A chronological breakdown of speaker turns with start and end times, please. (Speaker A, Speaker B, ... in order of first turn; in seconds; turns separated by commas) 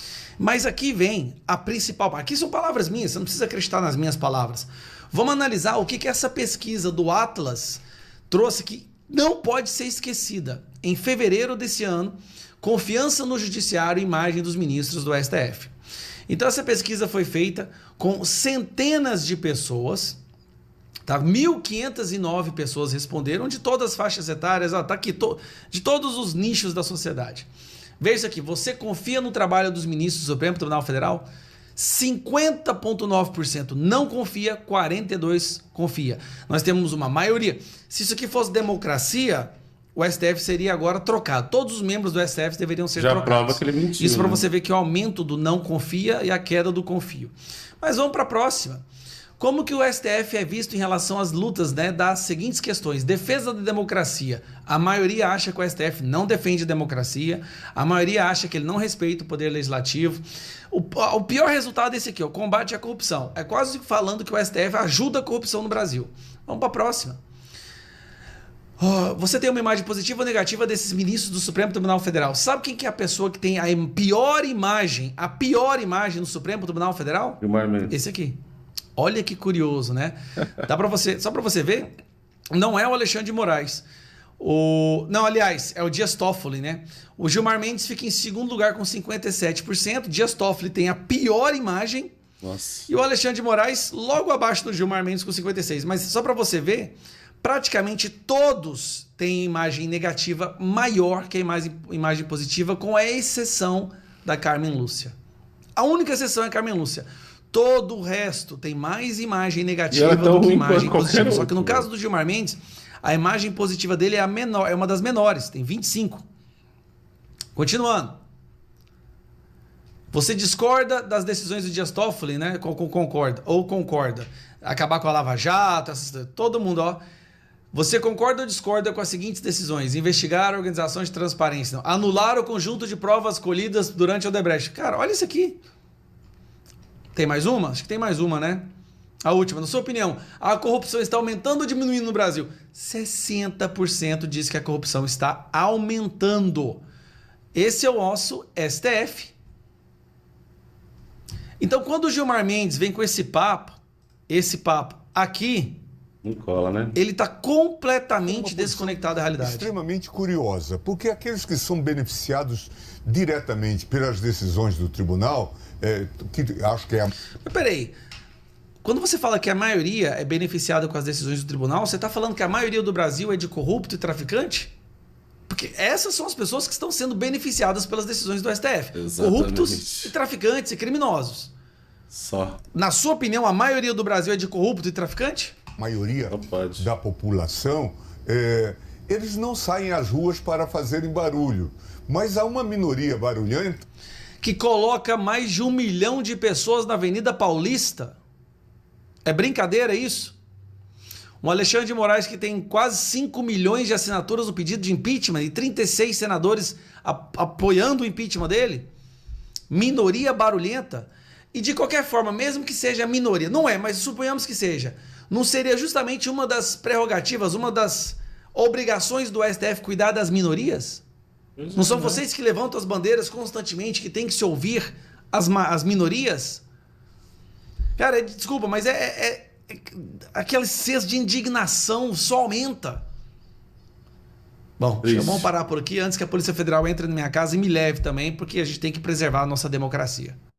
Speaker A: 0.4-15.7, Speaker A: 16.3-20.2, Speaker A: 21.0-27.5, Speaker A: 28.0-48.8, Speaker B: 43.0-44.4, Speaker A: 49.4-67.2, Speaker A: 68.8-78.4, Speaker B: 77.4-77.9, Speaker A: 79.0-81.9, Speaker A: 82.5-83.8, Speaker A: 84.4-92.1, Speaker B: 92.4-92.9, Speaker A: 92.9-105.1, Speaker A: 105.8-116.2, Speaker B: 109.9-111.9, Speaker A: 117.5-118.2, Speaker A: 120.1-127.0, Speaker A: 127.7-135.6, Speaker A: 137.1-138.7, Speaker A: 139.2-146.8, Speaker A: 147.5-149.3, Speaker A: 151.6-155.8, Speaker B: 156.2-156.9, Speaker A: 156.9-159.7, Speaker C: 158.3-167.1, Speaker A: 167.4-167.9, Speaker A: 168.8-174.7, Speaker A: 175.5-181.5, Speaker B: 178.9-180.1, Speaker B: 182.1-182.6, Speaker A: 182.7-185.6, Speaker C: 185.8-193.8, Speaker B: 186.2-186.9, Speaker A: 194.4-198.2, Speaker A: 199.2-200.3, Speaker A: 201.4-208.9, Speaker A: 209.7-221.0, Speaker B: 221.6-222.2, Speaker A: 221.7-226.6, Speaker A: 228.0-233.0, Speaker A: 234.8-240.4, Speaker B: 235.0-235.5